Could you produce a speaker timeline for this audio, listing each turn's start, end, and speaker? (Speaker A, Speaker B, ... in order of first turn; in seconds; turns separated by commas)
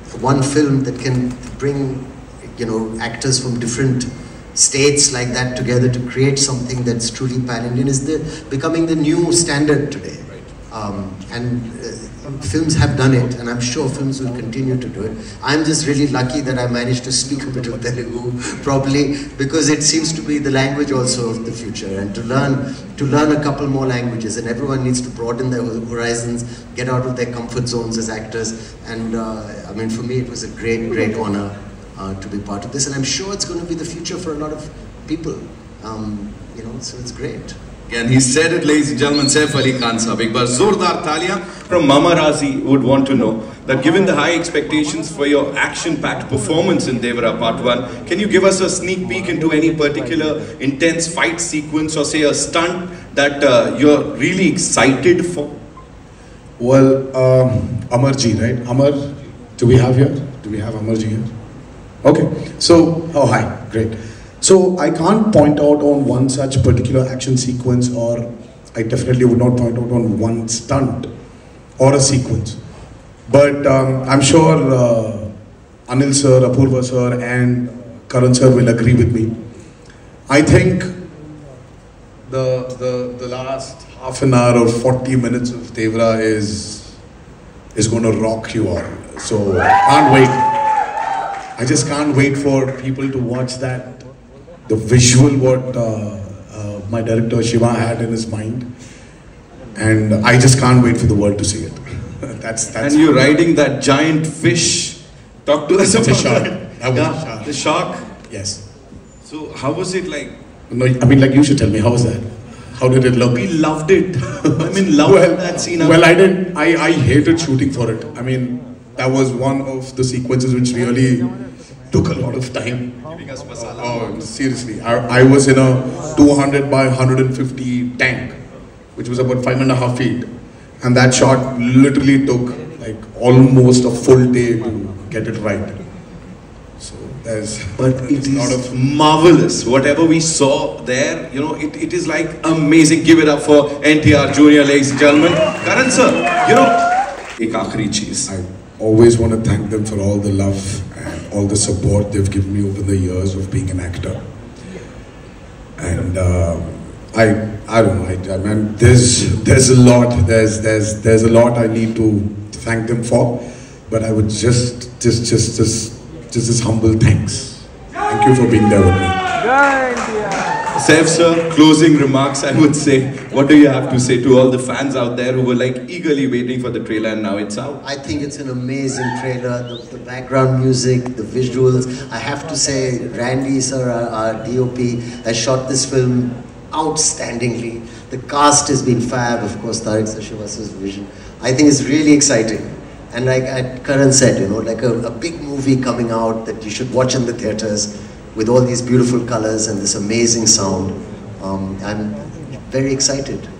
Speaker A: 0.1-37.5, Speaker B: 37.9-55.5, Speaker C: 56.6-59.0, Speaker C: 59.6-61.3, Speaker C: 62.0-71.1, Speaker C: 71.8-72.6, Speaker C: 73.3-75.3, Speaker C: 75.9-79.3, Speaker C: 80.3-80.9, Speaker C: 82.2-87.0, Speaker C: 87.7-90.4, Speaker C: 91.6-94.1, Speaker C: 94.7-98.7, Speaker C: 99.8-103.1, Speaker B: 102.8-108.0, Speaker C: 105.9-107.5, Speaker C: 108.3-108.6, Speaker B: 109.2-110.3, Speaker C: 110.7-113.5, Speaker B: 113.3-116.0, Speaker C: 114.5-121.3, Speaker C: 121.9-122.9, Speaker B: 123.1-124.0, Speaker C: 123.6-128.3, Speaker C: 128.9-130.3, Speaker C: 130.8-135.8, Speaker C: 136.8-138.7, Speaker B: 137.8-146.8, Speaker B: 147.4-148.3, Speaker C: 148.3-154.2, Speaker C: 155.8-169.2, Speaker B: 170.7-177.8, Speaker A: 177.8-203.5